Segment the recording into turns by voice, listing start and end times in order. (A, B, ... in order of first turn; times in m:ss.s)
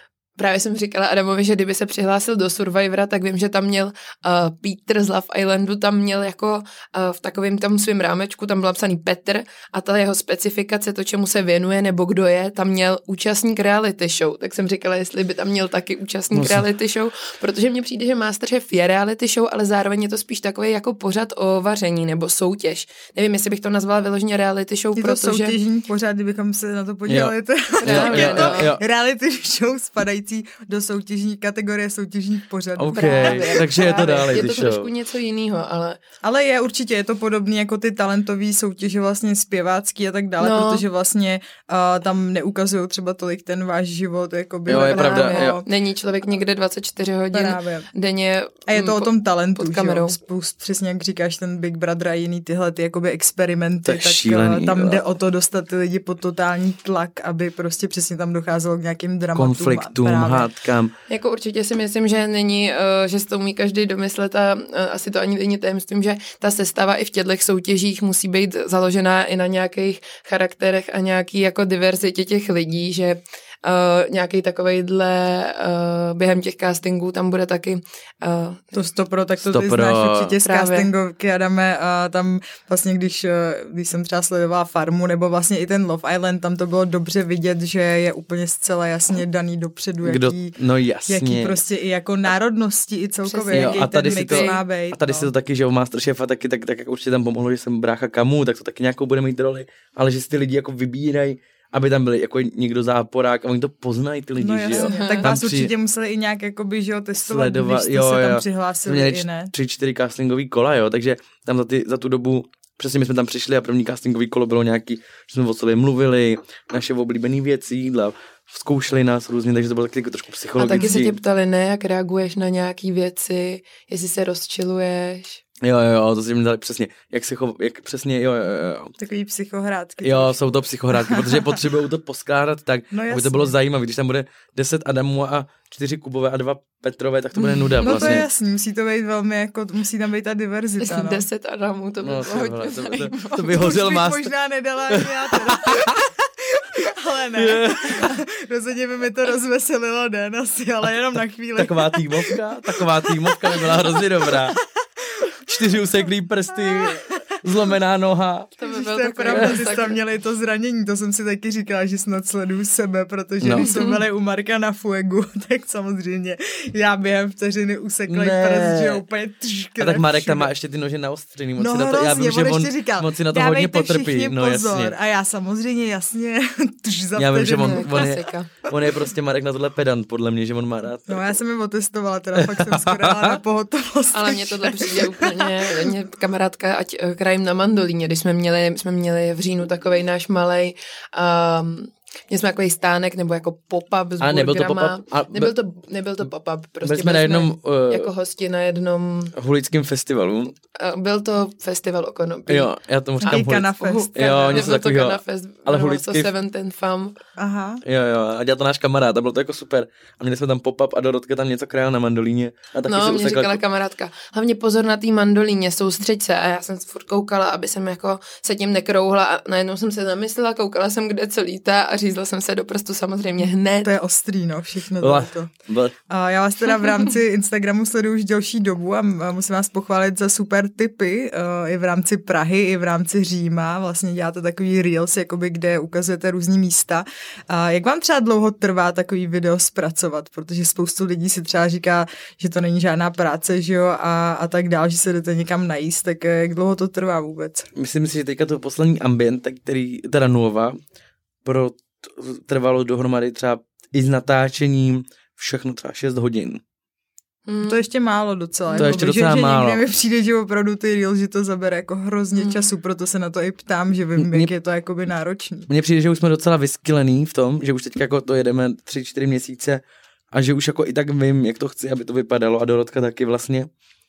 0:00.4-0:25.6 A
0:16.3-0:16.6 B
0:25.0-0:34.2 C
0:27.1-0:28.8 B
0:27.8-0:28.7 A
0:32.8-0:34.9 B
0:32.9-0:36.0 A
0:36.2-0:45.6 C
0:40.4-0:40.8 A
0:44.7-0:45.6 B
0:44.7-0:50.1 A
0:47.3-0:47.9 C
0:48.7-1:00.5 C
0:53.8-0:55.1 B
0:59.3-1:00.9 B
1:01.1-1:18.7 A
1:18.7-1:30.6 C
1:19.4-1:20.4 B
1:20.4-1:20.9 A
1:30.0-1:31.6 B
1:31.1-1:35.3 C
1:33.2-1:34.6 A
1:33.5-1:45.7 B
1:44.4-1:49.5 C
1:44.7-1:45.3 A
1:47.2-2:01.2 B
2:00.6-2:05.4 A
2:00.7-2:00.9 C
2:05.6-2:08.9 B
2:09.0-2:11.6 C
2:10.0-2:18.2 B
2:12.9-2:13.5 C
2:17.5-2:18.2 A
2:17.7-2:21.2 C
2:20.8-2:23.6 A
2:22.0-2:24.3 B
2:23.5-2:34.6 C
2:24.9-2:26.0 B
2:27.4-2:28.2 B
2:31.6-2:34.6 B
2:35.5-2:38.5 B
2:38.6-2:40.0 A
2:38.6-2:50.5 C
2:39.3-2:39.6 B
2:43.4-2:43.7 B
2:43.5-2:44.0 A
2:48.1-2:49.0 B
2:49.8-2:54.9 B
2:51.6-2:58.0 C
2:57.2-3:01.4 B
2:57.6-2:58.5 A
3:01.1-3:05.9 C
3:02.3-3:03.4 B
3:04.1-3:19.3 A
3:14.2-3:15.5 B
3:16.8-3:18.1 B
3:19.4-3:20.6 B
3:20.7-3:27.2 A
3:22.5-3:26.3 B
3:23.2-3:24.8 C
3:27.4-3:27.8 C
3:27.8-3:33.6 B
3:32.8-3:43.9 A
3:43.8-3:45.5 C
3:45.0-3:45.9 B
3:46.1-4:07.7 C
4:07.7-4:10.8 B
4:11.4-4:16.6 B
4:17.5-4:17.8 A
4:17.6-4:25.7 C
4:18.7-4:19.0 A
4:18.7-4:19.8 B
4:22.4-4:22.7 A
4:24.2-4:24.5 B
4:25.7-4:33.7 B